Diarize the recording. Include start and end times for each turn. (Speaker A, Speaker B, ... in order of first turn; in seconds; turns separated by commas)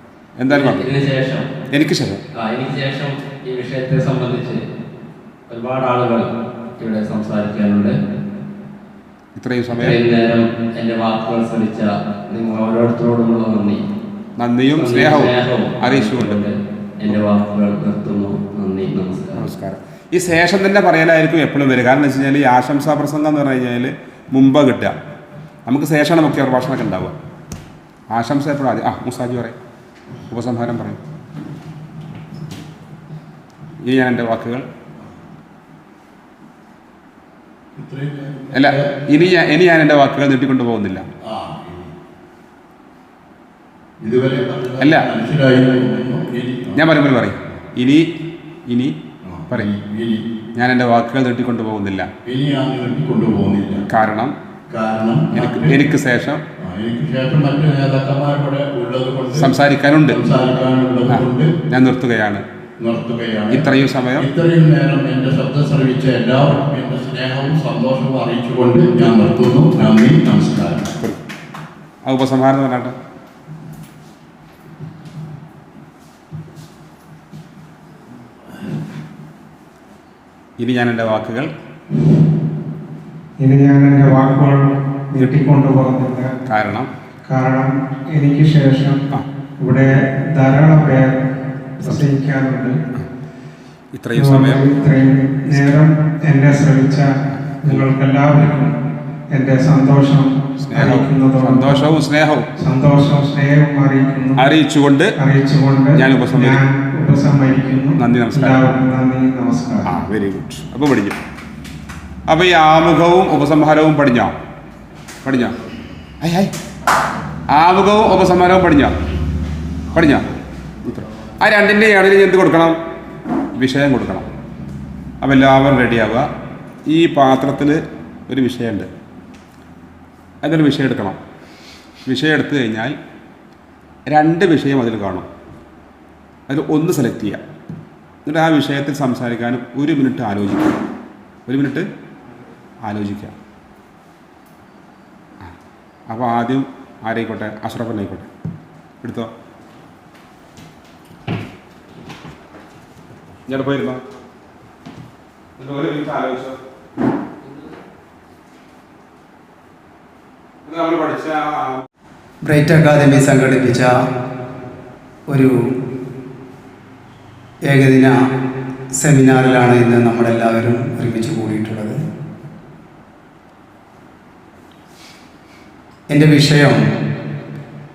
Speaker A: 0.4-0.9, Speaker B: 0.5-1.5, Speaker A: 1.7-2.2, Speaker B: 2.4-4.6, Speaker B: 5.5-6.3, Speaker B: 6.8-7.9, Speaker A: 9.3-10.0, Speaker B: 9.7-13.8, Speaker A: 14.4-16.4, Speaker B: 14.7-19.4, Speaker A: 19.4-24.9, Speaker A: 25.7-27.1, Speaker A: 28.1-29.6, Speaker A: 30.3-31.0, Speaker A: 33.8-34.6, Speaker C: 37.8-38.9, Speaker A: 38.5-41.0, Speaker C: 41.2-41.9, Speaker C: 44.0-46.8, Speaker A: 44.8-45.1, Speaker A: 46.8-48.0, Speaker A: 48.7-48.9, Speaker C: 49.2-50.2, Speaker A: 50.5-52.1, Speaker C: 52.2-53.8, Speaker A: 53.9-54.3, Speaker C: 54.7-55.8, Speaker A: 55.3-56.4, Speaker C: 56.6-59.5, Speaker A: 59.4-60.2, Speaker C: 60.1-61.5, Speaker A: 61.1-62.4, Speaker C: 62.8-63.6, Speaker A: 63.5-64.3, Speaker C: 64.2-70.9, Speaker A: 72.0-73.0, Speaker A: 80.6-81.5, Speaker D: 83.4-86.3, Speaker A: 86.5-86.9, Speaker D: 87.3-89.0, Speaker D: 89.6-91.3, Speaker D: 91.8-92.8, Speaker A: 93.9-94.7, Speaker D: 94.1-97.1, Speaker A: 95.5-95.8, Speaker D: 97.6-98.7, Speaker D: 99.3-101.9, Speaker A: 100.6-102.5, Speaker D: 102.6-104.5, Speaker A: 104.4-105.1, Speaker D: 105.2-109.9, Speaker A: 106.0-106.6, Speaker A: 108.0-108.6, Speaker A: 109.8-111.2, Speaker A: 112.3-114.3, Speaker A: 115.2-115.6, Speaker A: 116.2-116.5, Speaker A: 117.5-119.0, Speaker A: 119.9-122.8, Speaker A: 123.5-124.2, Speaker A: 125.2-126.3, Speaker A: 126.9-128.9, Speaker A: 130.4-131.2, Speaker A: 132.1-132.9, Speaker A: 134.1-135.3, Speaker A: 136.5-137.4, Speaker A: 138.2-140.7, Speaker A: 141.5-141.8, Speaker A: 142.8-143.3, Speaker A: 146.1-148.3, Speaker A: 149.0-149.3, Speaker A: 153.5-154.0, Speaker A: 155.6-156.6, Speaker A: 160.6-161.8, Speaker E: 162.4-163.9, Speaker E: 165.3-165.5, Speaker E: 167.6-168.2, Speaker E: 168.9-172.0, Speaker E: 176.1-176.8